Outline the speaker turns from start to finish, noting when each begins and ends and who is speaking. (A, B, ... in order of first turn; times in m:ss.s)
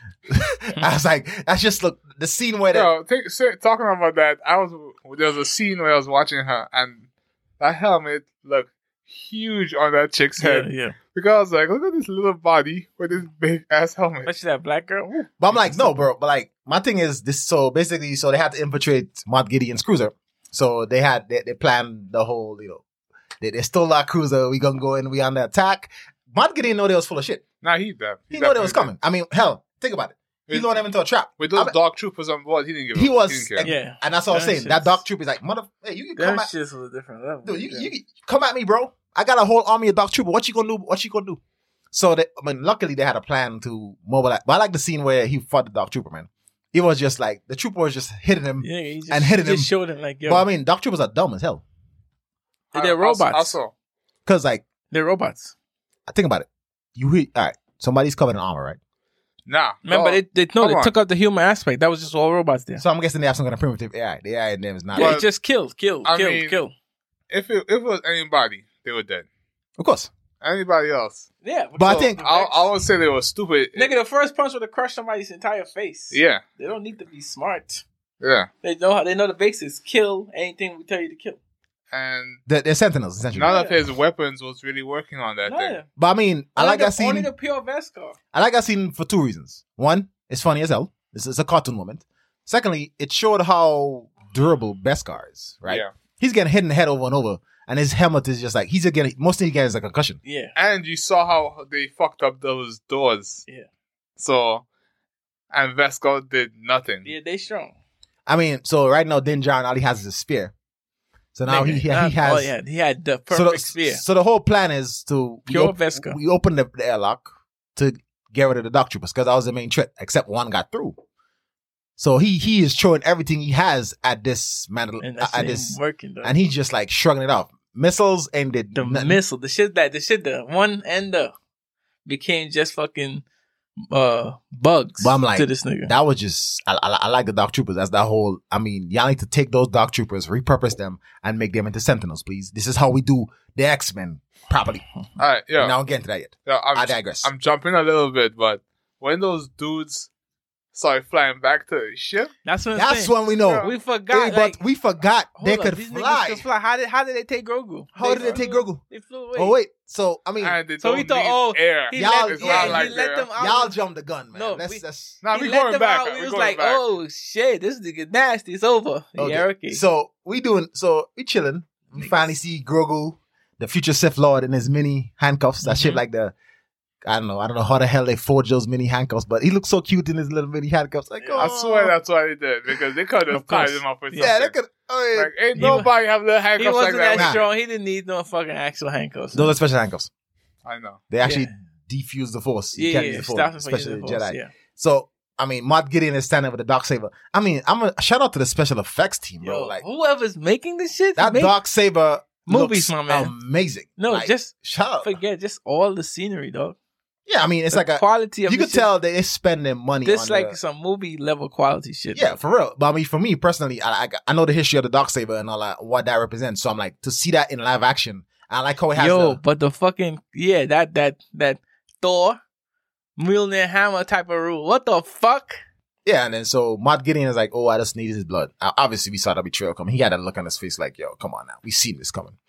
0:00.3-0:02.9 A
0:02.7-0:07.1 B
0:07.6-0:14.3 B
0:10.4-0:11.0 C
0:14.3-0:15.9 C
0:15.4-0:22.8 A
0:23.4-0:27.4 A
0:27.6-0:28.9 B
0:28.3-0:31.7 A
0:30.5-0:30.8 B
0:31.4-0:33.7 B
0:32.9-0:36.5 A
0:33.6-0:35.0 C
0:36.2-0:37.9 C
0:37.4-0:41.4 A
0:41.9-0:49.7 A
0:48.6-0:50.4 C
0:50.3-0:51.6 A
0:52.7-0:53.7 B
0:52.7-0:53.6 C
0:54.3-0:54.7 A
0:54.9-0:55.5 C
0:56.1-0:58.8 A
0:59.5-1:00.9 B
0:59.9-1:02.8 C
1:02.8-1:05.2 A
1:04.9-1:06.7 C
1:05.0-1:05.3 B
1:06.0-1:06.6 B
1:07.3-1:09.3 B
1:09.8-1:10.1 A
1:10.4-1:11.3 B
1:11.4-1:12.7 C
1:11.8-1:12.2 A
1:11.8-1:13.9 B
1:13.8-1:17.8 C
1:16.1-1:16.4 B
1:18.2-1:18.5 B
1:18.6-1:21.4 C
1:21.9-1:22.4 B
1:22.5-1:23.6 A
1:23.4-1:25.8 B
1:23.4-1:23.8 C
1:25.5-1:25.9 C
1:26.0-1:27.3 A
1:26.6-1:28.2 C
1:28.3-1:40.2 A
1:40.2-1:40.5 C
1:40.6-1:43.4 B
1:44.2-1:44.6 B
1:45.5-1:47.1 B
1:47.0-1:47.7 C
1:48.3-1:50.5 A
1:51.4-1:52.5 A
1:51.5-1:54.0 C
1:53.3-2:01.0 A
1:55.5-1:56.2 C
2:02.0-2:09.2 A
2:05.0-2:06.3 C
2:08.8-2:11.3 C
2:12.1-2:13.2 C
2:13.9-2:15.9 C
2:15.0-2:24.8 A
2:25.2-2:25.8 B
2:25.6-2:27.3 A
2:26.4-2:30.1 B
2:30.7-2:32.3 B
2:32.4-2:34.6 C
2:32.7-2:36.4 A
2:33.4-2:33.8 B
2:35.4-2:39.6 C
2:38.0-2:38.8 A
2:39.3-2:40.6 A
2:40.4-2:43.3 B
2:40.8-2:43.8 C
2:41.9-2:45.2 A
2:44.3-2:49.8 C
2:45.2-2:46.8 B
2:49.2-2:56.3 A
2:52.0-2:52.3 C
2:55.6-2:56.0 C
2:57.0-3:01.9 A
3:01.2-3:01.5 C
3:01.4-3:04.5 B
3:03.3-3:04.3 C
3:04.2-3:05.3 A
3:05.2-3:07.4 B
3:05.6-3:05.9 C
3:06.6-3:09.6 C
3:07.1-3:07.4 A
3:09.3-3:10.1 A
3:10.6-3:11.0 B
3:11.1-3:19.8 A
3:11.2-3:11.5 C
3:12.7-3:14.5 C
3:19.4-3:21.6 C
3:21.2-3:25.2 A
3:22.5-3:23.3 C
3:24.0-3:26.8 C
3:27.3-3:30.6 A
3:27.7-3:28.9 C
3:30.0-3:32.4 C
3:32.2-3:39.4 A
3:39.0-3:42.4 C
3:43.2-3:45.6 C
3:46.0-3:52.4 A